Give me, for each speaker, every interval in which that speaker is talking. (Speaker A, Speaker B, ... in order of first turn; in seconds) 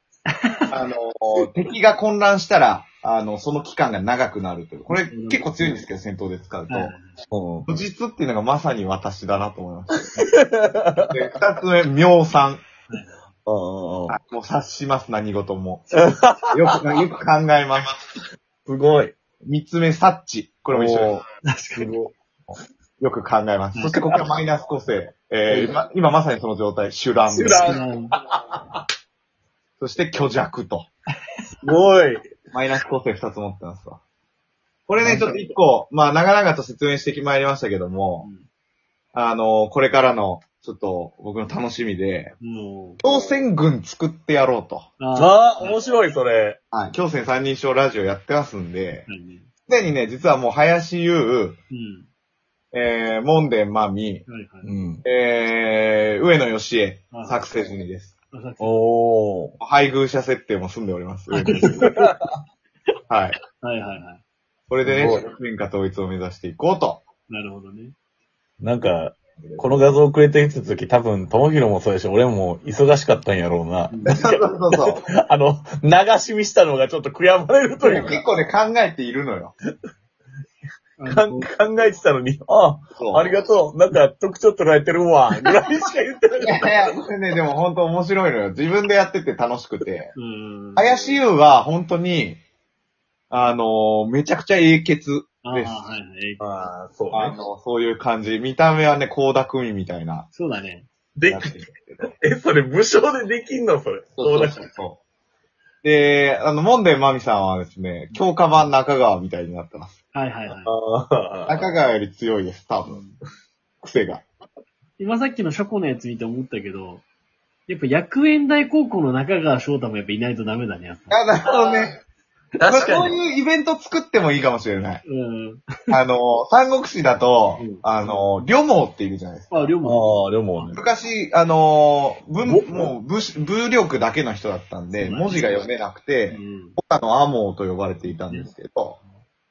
Speaker A: 0.3-0.7, 4.9-5.8, 6.7-7.0, 12.9-13.2, 21.4-21.9, 23.7-24.2, 27.5-28.1, 35.0-35.3, 38.2-38.5, 42.4-43.0, 45.0-45.8, 49.1-49.5, 51.7-52.1, 54.3-54.7, 57.1-57.5, 58.3-58.8, 61.3-62.1, 63.6-64.2, 67.3-67.9, 73.9-74.1, 77.8-78.2, 81.0-81.5, 90.1-91.0, 95.4-96.4, 100.3-100.8, 110.1-110.7, 112.9-113.2, 115.0-117.0, 117.7-121.8, 125.0-125.9, 127.6-128.3, 129.5-130.8, 134.9-135.6, 136.3-136.8, 138.1-138.5
Speaker B: 0.7-6.9, 7.7-10.2, 11.1-12.6, 14.1-15.9, 16.5-18.0, 19.4-21.2, 23.0-27.8, 29.8-30.9, 32.5-34.0, 34.9-38.3, 39.1-42.3, 43.0-44.9, 46.7-49.1, 49.7-51.6, 52.7-54.2, 55.0-58.1, 59.6-61.9, 63.1-63.4, 64.7-67.0, 74.0-75.0, 77.8-79.5, 83.0-83.2, 86.4-90.1, 90.8-92.4, 93.3-95.8, 97.1-100.3, 101.3-102.1, 104.2-105.0, 105.8-109.9, 111.5-113.0, 113.8-114.2, 121.1-122.0, 122.6-125.0, 125.9-129.7, 130.7-139.0
Speaker C: 7.3-7.7, 10.2-11.1, 13.4-14.1, 15.9-16.7, 18.6-19.1, 20.7-21.2, 21.7-22.1, 25.5-25.7, 27.3-27.8, 31.6-32.2, 45.1-46.6, 54.6-55.0, 58.6-59.6, 61.8-62.2, 64.9-65.2, 68.6-78.2, 81.1-86.8, 96.4-97.3, 101.2-104.6, 110.5-111.7, 122.6-123.1, 129.8-130.8, 132.4-132.9